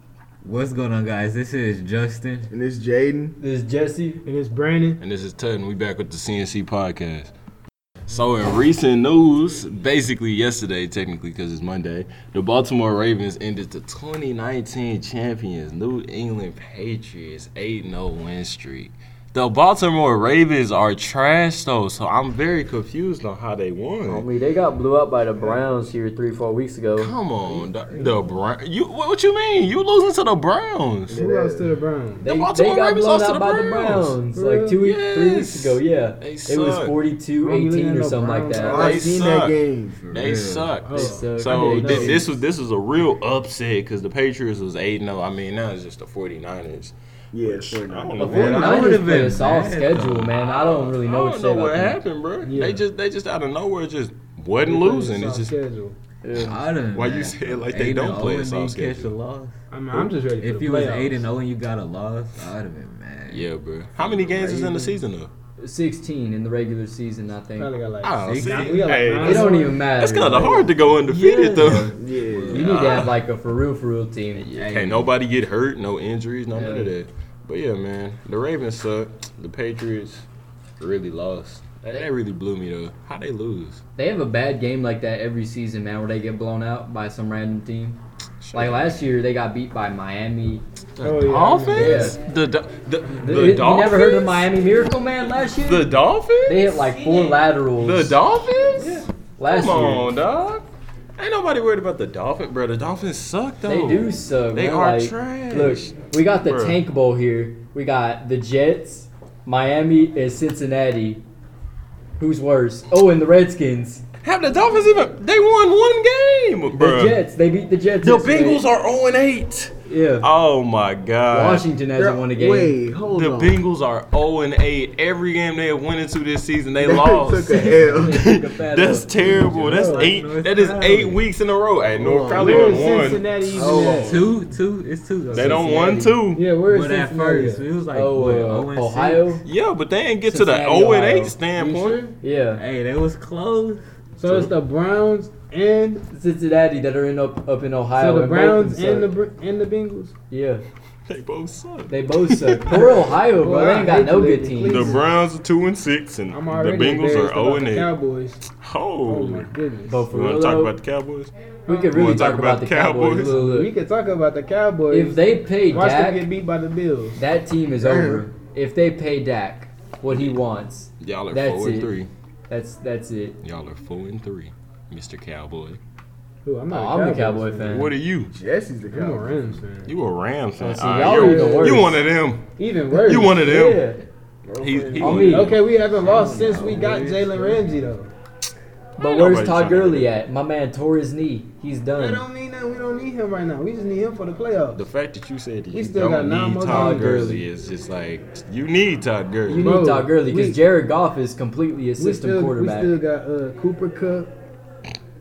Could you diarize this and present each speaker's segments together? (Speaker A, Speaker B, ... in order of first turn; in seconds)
Speaker A: 0.4-2.5, 40.0-40.8, 48.3-50.3, 56.3-59.5, 60.4-63.5, 68.2-68.9, 71.1-72.7, 129.2-131.2, 133.9-139.4, 142.6-143.8, 186.1-187.6
Speaker B: 2.5-3.4, 31.1-31.7, 38.6-40.0, 47.3-48.6, 72.0-72.6, 121.9-123.6, 126.8-128.2, 132.0-134.2, 167.8-168.3, 178.3-179.6, 184.5-185.0, 186.4-186.8
Speaker C: 3.4-4.2, 24.1-27.1, 32.2-38.9, 40.9-42.3, 48.2-52.0, 56.2-56.6, 65.6-67.7, 69.1-70.7, 71.3-71.7, 72.5-75.1, 76.5-76.9, 84.0-88.0, 88.5-90.6, 91.8-92.2, 93.2-98.2, 98.8-100.1, 103.6-111.2, 112.2-114.0, 116.7-118.6, 119.9-120.2, 121.3-122.8, 127.8-129.1, 135.5-136.0, 137.9-139.4, 140.3-141.4, 142.2-142.6, 146.1-149.1, 150.3-150.6, 151.9-155.0, 159.8-160.7, 161.7-163.7, 164.9-166.3, 167.2-172.0, 172.5-173.4, 176.7-177.9, 180.6-182.0, 183.3-184.0, 185.0-185.6, 189.0-192.2, 196.7-197.5, 199.5-202.9
Speaker D: 4.2-5.0, 27.6-28.4, 31.1-32.3, 34.3-34.8, 37.4-39.1, 40.8-42.3, 48.2-48.9, 52.4-52.8, 54.6-56.0, 59.7-61.2, 64.3-65.0, 67.6-70.6, 91.0-92.2, 93.1-93.6, 129.6-130.1, 132.3-134.3, 136.3-137.7, 141.6-142.0, 144.2-146.0, 148.0-150.1, 153.4-155.1, 156.3-158.4, 159.1-160.0, 161.7-162.0, 163.3-167.2, 176.4-177.8, 178.9-179.9, 180.9-181.9, 182.6-183.4, 184.8-188.1, 192.0-194.8, 195.7-197.3, 199.6-200.6, 202.0-204.3
Speaker E: 5.0-7.3, 8.1-24.3, 27.0-31.2, 32.2-34.2, 34.8-37.0, 38.6-39.6, 40.1-48.9, 50.3-55.6, 56.9-59.1, 63.3-65.3, 68.0-72.0, 72.5-73.2, 74.4-80.2, 80.8-83.8, 88.4-89.0, 91.0-94.5, 95.6-100.7, 101.2-106.8, 114.2-117.2, 118.0-121.7, 123.1-134.1, 135.3-136.4, 139.4-142.1, 144.2-144.5, 151.1-152.9, 154.7-157.9, 158.6-159.5, 160.1-161.3, 161.9-163.4, 170.1-170.4, 171.0-172.1, 173.4-175.8, 177.7-178.3, 179.8-183.8, 184.6-185.6, 189.0-190.1, 194.7-199.7